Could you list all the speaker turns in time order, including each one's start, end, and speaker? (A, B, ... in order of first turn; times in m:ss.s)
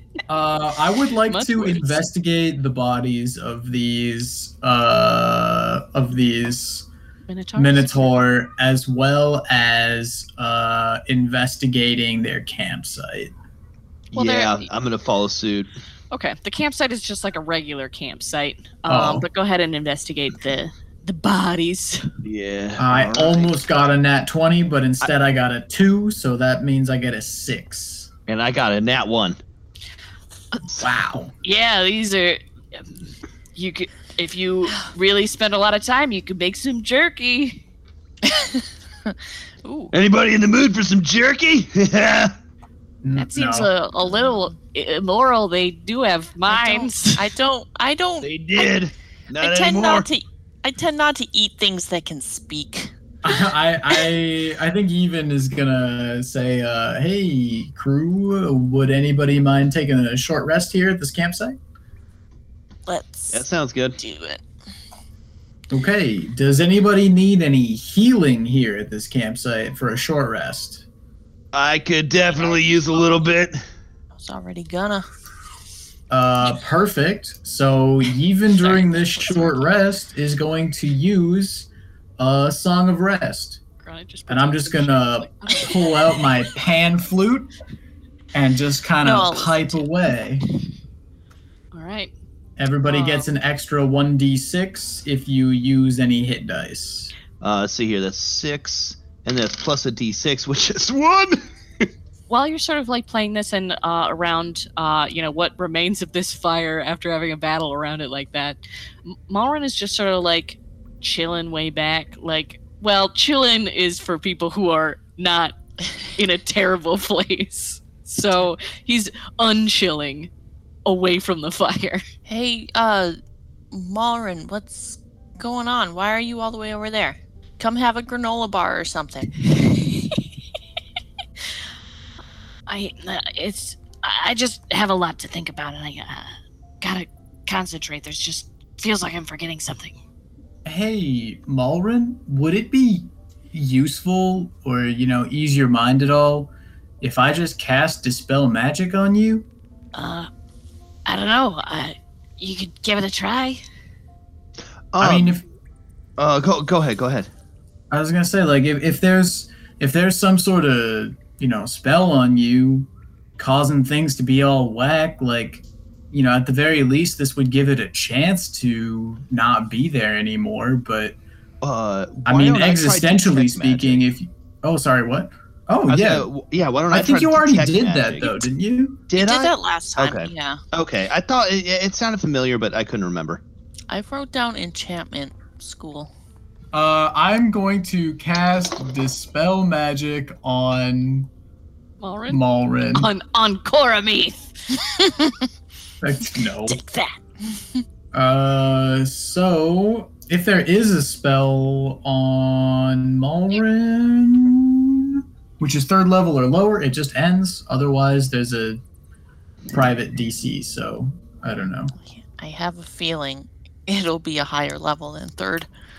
0:00.3-0:06.9 A
0:01.3-0:02.0 B
0:07.3-0:08.2 B
0:07.6-0:13.3 A
0:14.1-0:14.7 B
0:14.1-0:15.7 C
0:16.1-0:22.0 B
0:18.9-0:19.3 A
0:22.2-0:23.5 C
0:22.8-0:28.1 A
0:28.3-0:29.4 C
0:30.8-0:31.3 A
0:31.4-0:33.0 B
0:33.6-0:37.6 B
0:39.6-0:39.9 B
0:39.9-0:42.3 C
0:43.0-0:43.7 A
0:43.2-0:47.3 B
0:46.5-0:48.8 D
0:48.2-0:50.1 C
0:49.4-0:52.9 D
0:53.2-1:01.6 A
1:02.9-1:03.4 D
1:03.3-1:04.0 C
1:04.0-1:04.4 D
1:05.7-1:10.8 A
1:11.5-1:13.6 C
1:12.4-1:13.0 D
1:14.2-1:15.0 D
1:16.1-1:23.6 A
1:19.1-1:19.5 D
1:23.8-1:26.1 B
1:24.3-1:27.5 A
1:28.3-1:30.4 A
1:29.0-1:29.8 D
1:31.7-1:32.1 B
1:32.6-1:37.1 A
1:32.8-1:33.3 B
1:37.4-1:41.9 C
1:42.3-1:55.5 B
1:56.2-2:00.3 B
2:00.9-2:02.0 B
2:02.3-2:03.2 D
2:03.7-2:09.3 D
2:09.6-2:10.2 B
2:12.7-2:20.0 B
2:20.6-2:29.5 A
2:29.9-2:30.3 B
2:31.1-2:33.6 B
2:34.9-2:35.4 C
2:35.0-2:35.4 A
2:36.2-2:37.3 C
2:37.9-2:51.2 A
2:51.6-2:54.0 C
2:52.2-2:56.3 A
2:55.9-2:58.4 C
2:56.9-2:59.0 A
2:59.1-3:03.4 C
2:59.2-3:00.6 D
3:03.9-3:06.1 D
3:06.7-3:11.3 A
3:12.0-3:14.4 B
3:12.3-3:13.1 A
3:16.0-3:16.8 A
3:16.7-3:17.1 B
3:18.1-3:28.8 A
3:29.7-3:31.9 A
3:32.0-3:35.7 D